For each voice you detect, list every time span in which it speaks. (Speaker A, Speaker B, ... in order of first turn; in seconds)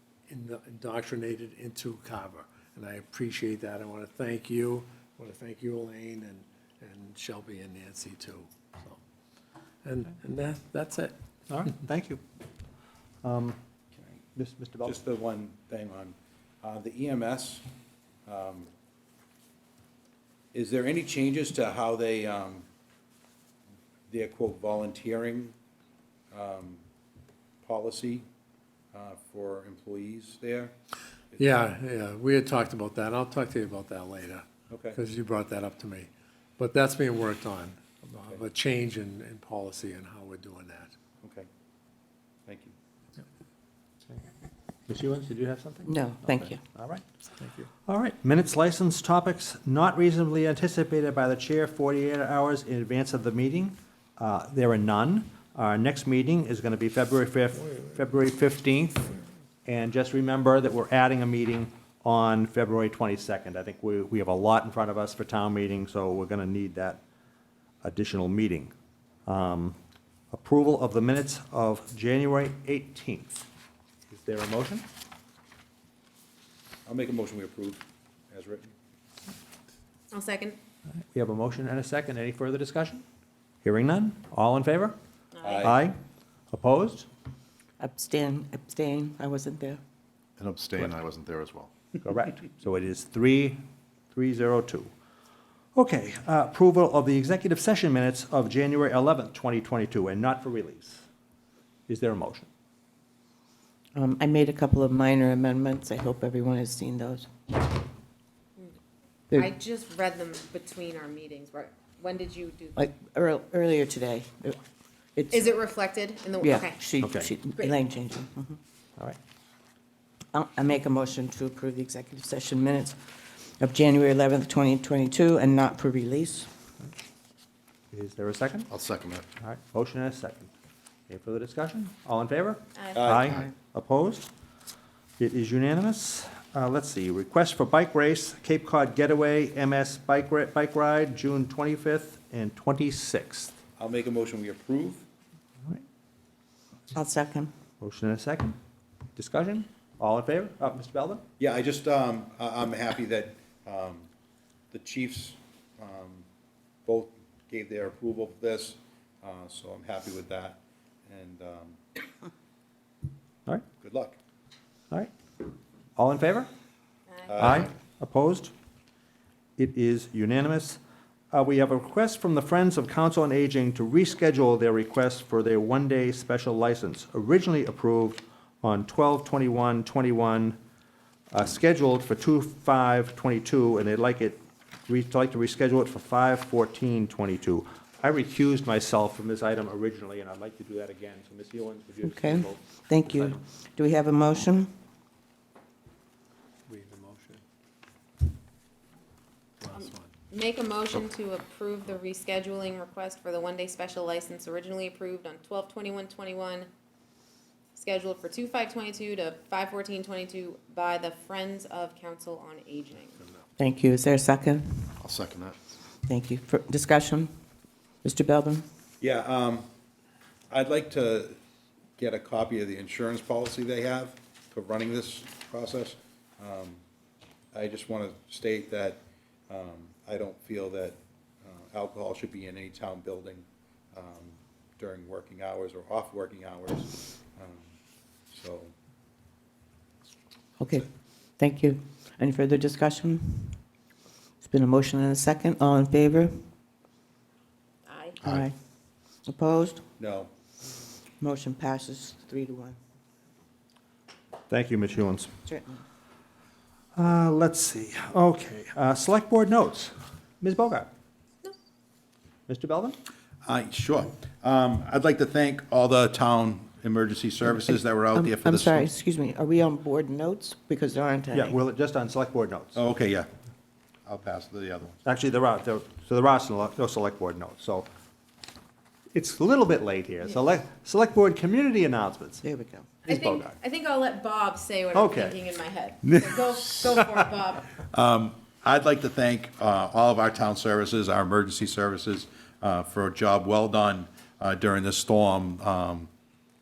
Speaker A: 0.3-9.0, 9.8-11.2, 31.4-40.9, 196.7-197.4, 199.6-200.1
Speaker B: 11.5-12.2, 13.2-13.6, 14.3-15.0, 44.9-59.1, 59.6-67.0, 67.8-68.7, 69.2-69.8, 70.3-73.5, 74.1-74.8, 81.1-83.0, 83.6-85.0, 85.6-86.0, 86.5-87.0, 92.0-93.6, 94.1-94.9, 95.7-101.0, 101.9-102.5, 117.0-117.3, 127.9-128.7, 129.4-130.5, 131.1-134.3, 135.2-143.5, 147.8-148.6, 149.2-151.2, 165.9-166.5, 167.4-168.5, 169.6-170.8, 171.3-180.6, 181.3-193.4, 254.5-255.3, 256.9-260.9, 262.5-263.0, 271.3-272.8, 275.0-277.9, 279.1-282.4, 283.1-283.6, 284.9-285.4
Speaker C: 14.8-17.6, 18.3-18.7, 20.5-22.6, 24.1-25.5, 26.3-26.8, 27.6-28.2, 28.9-30.7, 34.7-35.0, 41.2-41.5, 42.5-42.7, 76.8-78.7, 85.4-85.8, 132.9-133.3, 143.8-145.0, 151.4-154.1, 154.7-156.2, 156.8-161.8, 163.8-164.2, 167.3-167.7, 219.0-219.7, 220.5-221.4, 222.0-226.8, 227.5-237.7, 238.3-238.7, 250.0-250.3, 263.4-268.9, 272.7-273.3, 274.1-275.0, 286.0-287.0, 287.8-296.1
Speaker D: 45.8-46.6, 87.8-89.8, 103.9-107.3, 112.8-114.6, 115.2-115.6, 116.4-118.6, 120.3-123.0, 123.6-126.5, 146.9-147.5, 192.0-194.7, 213.6-214.9, 216.1-217.3, 218.0-218.6, 240.6-243.6, 244.4-246.3, 248.2-248.5, 249.2-249.8, 251.2-252.8, 255.5-255.8, 267.5-271.6, 282.4-283.0
Speaker E: 80.1-80.6, 85.3-85.7, 109.3-112.9, 115.3-116.8, 167.1-167.6, 199.7-206.7, 207.7-213.2, 247.8-248.2, 283.1-287.7
Speaker F: 90.4-91.7, 128.7-129.2, 215.0-215.6